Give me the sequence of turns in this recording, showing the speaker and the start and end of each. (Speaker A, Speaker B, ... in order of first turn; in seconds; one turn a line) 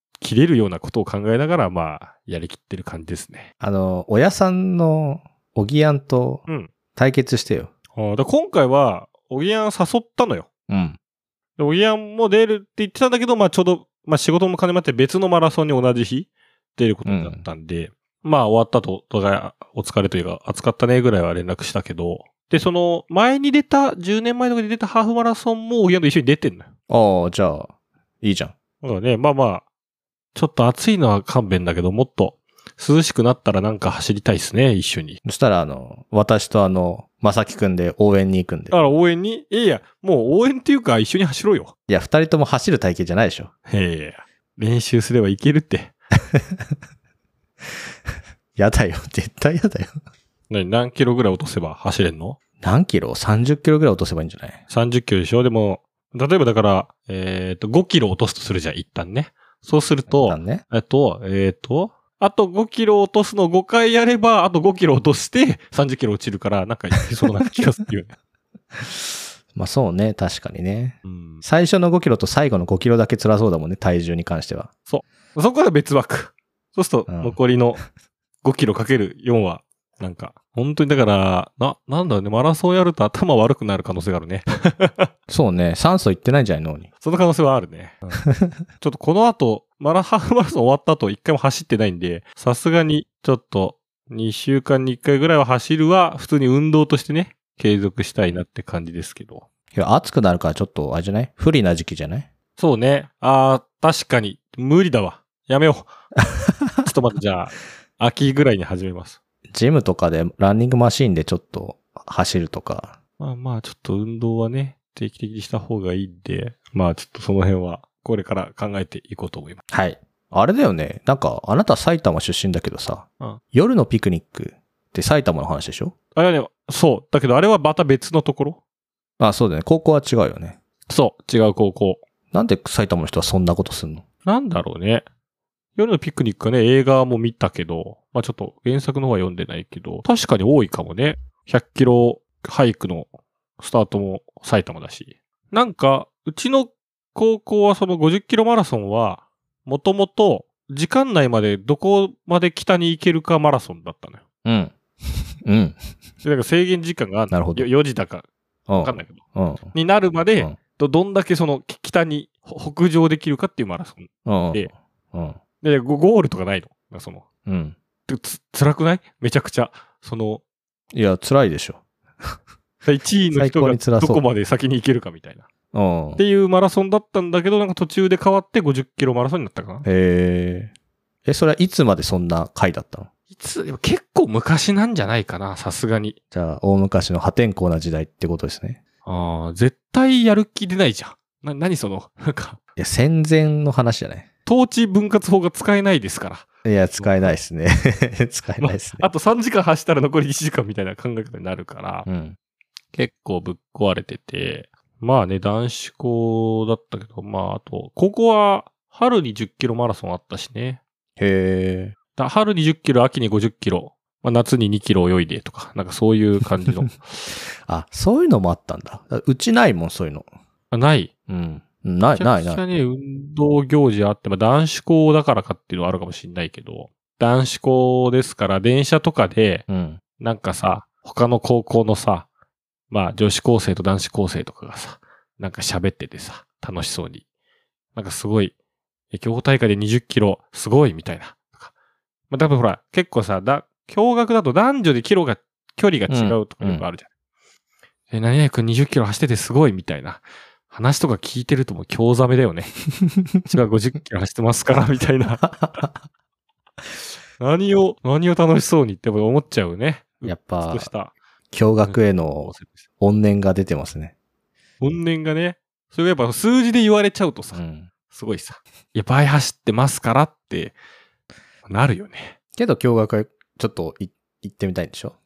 Speaker A: 0.2-3.5
Speaker B: 3.6-7.7
Speaker A: 6.5-6.7
Speaker A: 7.9-10.5
Speaker B: 10.7-11.0
Speaker A: 11.6-26.7
Speaker B: 17.1-17.4
Speaker B: 26.9-28.5
Speaker A: 28.8-29.6
Speaker A: 30.3-35.2
Speaker B: 35.2-38.8
Speaker A: 38.7-41.7
Speaker B: 41.9-43.5
Speaker A: 43.7-45.9
Speaker B: 46.3-46.7
Speaker B: 48.5-50.0
Speaker A: 50.5-52.4
Speaker B: 52.6-54.6
Speaker A: 54.7-68.2
Speaker B: 60.1-60.6
Speaker B: 68.7-74.7
Speaker A: 71.0-71.4
Speaker A: 74.9-77.8
Speaker B: 77.1-77.4
Speaker A: 78.4-85.1
Speaker B: 85.3-86.9
Speaker A: 87.0-88.2
Speaker B: 88.2-88.6
Speaker A: 88.8-99.5
Speaker B: 99.7-102.3
Speaker A: 102.6-105.9
Speaker B: 106.3-106.9
Speaker A: 106.8-109.2
Speaker B: 109.5-112.9
Speaker A: 113.2-119.6
Speaker B: 119.7-125.9
Speaker A: 126.1-128.6
Speaker B: 129.2-130.6
Speaker A: 130.9-132.0
Speaker B: 132.3-134.0
Speaker A: 134.2-135.0
Speaker A: 135.8-154.2
Speaker B: 154.4-154.7
Speaker B: 155.4-155.8
Speaker A: 156.2-159.2
Speaker B: 157.3-157.7
Speaker B: 158.7-159.7
Speaker A: 159.7-164.7
Speaker B: 164.2-165.4
Speaker A: 165.6-167.2
Speaker B: 167.4-167.8
Speaker A: 168.1-170.4
Speaker B: 170.9-172.3
Speaker A: 172.8-175.5
Speaker B: 173.3-174.2
Speaker B: 175.7-176.2
Speaker A: 176.2-179.8
Speaker B: 179.8-180.7
Speaker B: 181.2-183.1
Speaker A: 183.3-186.2
Speaker B: 186.3-188.8
Speaker A: 189.0-192.6
Speaker B: 192.8-194.3
Speaker A: 194.4-197.4
Speaker B: 196.6-199.1
Speaker A: 198.6-202.1
Speaker B: 202.1-202.4
Speaker A: 202.9-210.8
Speaker B: 211.2-211.9
Speaker A: 212.2-217.0
Speaker B: 217.6-220.3
Speaker A: 220.7-221.1
Speaker B: 221.3-222.6
Speaker A: 222.2-232.3
Speaker B: 229.7-230.0
Speaker A: 232.9-237.2
Speaker A: 237.9-238.5
Speaker A: 239.1-241.7
Speaker A: 242.3-247.1
Speaker B: 246.1-246.8
Speaker A: 248.1-252.7
Speaker B: 253.0-253.4
Speaker A: 253.5-255.4
Speaker B: 255.4-256.0
Speaker A: 257.4-261.1
Speaker B: 260.2-260.9
Speaker B: 261.5-264.1
Speaker A: 261.8-262.8
Speaker A: 264.8-270.7
Speaker B: 267.5-267.9
Speaker A: 271.7-272.3
Speaker B: 272.5-275.1